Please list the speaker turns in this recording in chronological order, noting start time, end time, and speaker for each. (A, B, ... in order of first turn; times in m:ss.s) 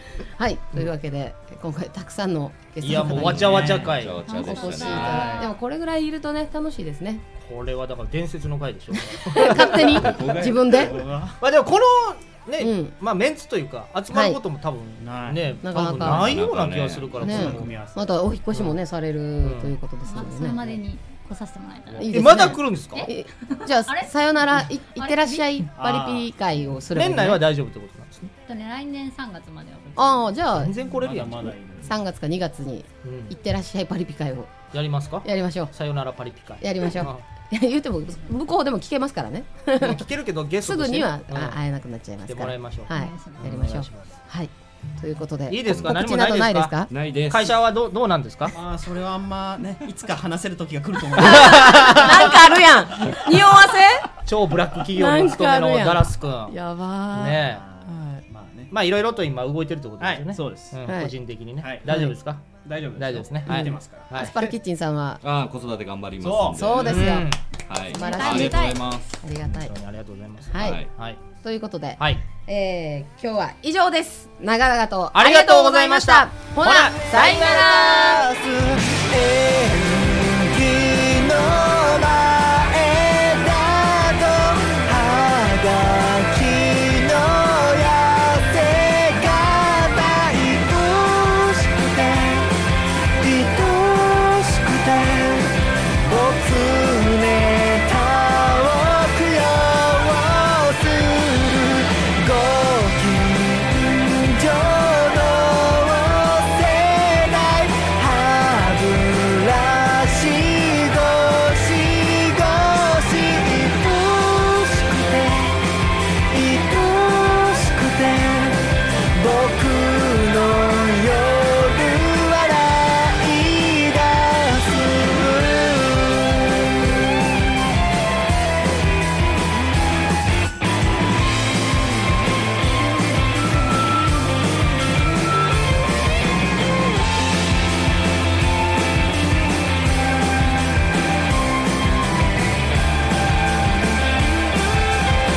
0:00.4-0:03.8 A
0:02.8-0:04.2 B
0:03.0-0:04.0 C
0:03.8-0:05.4 D
0:04.2-0:05.5 E
0:04.3-0:07.2 A
0:05.0-0:05.5 C
0:07.4-0:10.2 B
0:09.3-0:11.0 A
0:10.0-0:10.6 D
0:10.0-0:11.4 C
0:11.4-0:17.7 B
0:12.6-0:12.9 A
0:14.1-0:14.4 A
0:15.0-0:16.2 C
0:15.6-0:16.3 A
0:16.2-0:17.2 D
0:17.2-0:18.7 C
0:17.2-0:20.6 A
0:19.4-0:19.8 B
0:20.0-0:22.3 E
0:20.6-0:20.8 C
0:21.9-0:22.2 C
0:22.0-0:27.4 A
0:22.1-0:23.1 B
0:22.9-0:25.7 E
0:25.8-0:26.3 C
0:26.9-0:28.3 B
0:28.4-0:30.2 E
0:30.0-0:30.7 A
0:30.5-0:31.6 B
0:30.7-0:32.0 C
0:31.8-0:34.6 A
0:33.0-0:33.3 B
0:34.7-0:37.2 B
0:35.2-0:35.7 A
0:36.6-0:40.0 A
0:39.8-0:41.6 B
0:40.6-0:46.9 A
0:42.3-0:44.2 B
0:42.9-0:43.6 E
0:43.4-0:43.7 C
0:45.5-0:46.8 B
0:46.9-0:47.6 D
0:47.3-0:48.6 B
0:48.5-0:53.2 C
0:51.2-0:54.1 A
0:54.2-0:56.6 B
0:54.9-0:58.2 A
0:57.1-0:57.6 B
0:57.4-0:58.7 C
0:58.7-1:04.5 B
1:00.0-1:00.9 C
1:00.8-1:01.1 A
1:01.6-1:02.1 C
1:01.9-1:02.2 A
1:02.6-1:04.3 C
1:03.5-1:05.2 A
1:05.2-1:07.1 D
1:06.2-1:07.1 C
1:06.5-1:07.3 A
1:06.7-1:07.4 B
1:07.7-1:09.1 D
1:07.9-1:08.9 E
1:07.9-1:09.8 A
1:09.5-1:11.2 B
1:10.5-1:10.8 A
1:10.6-1:10.9 D
1:11.4-1:18.2 A
1:12.0-1:12.2 B
1:15.1-1:18.3 B
1:16.9-1:32.5 F
1:33.2-1:55.6 F
1:56.3-2:06.6 F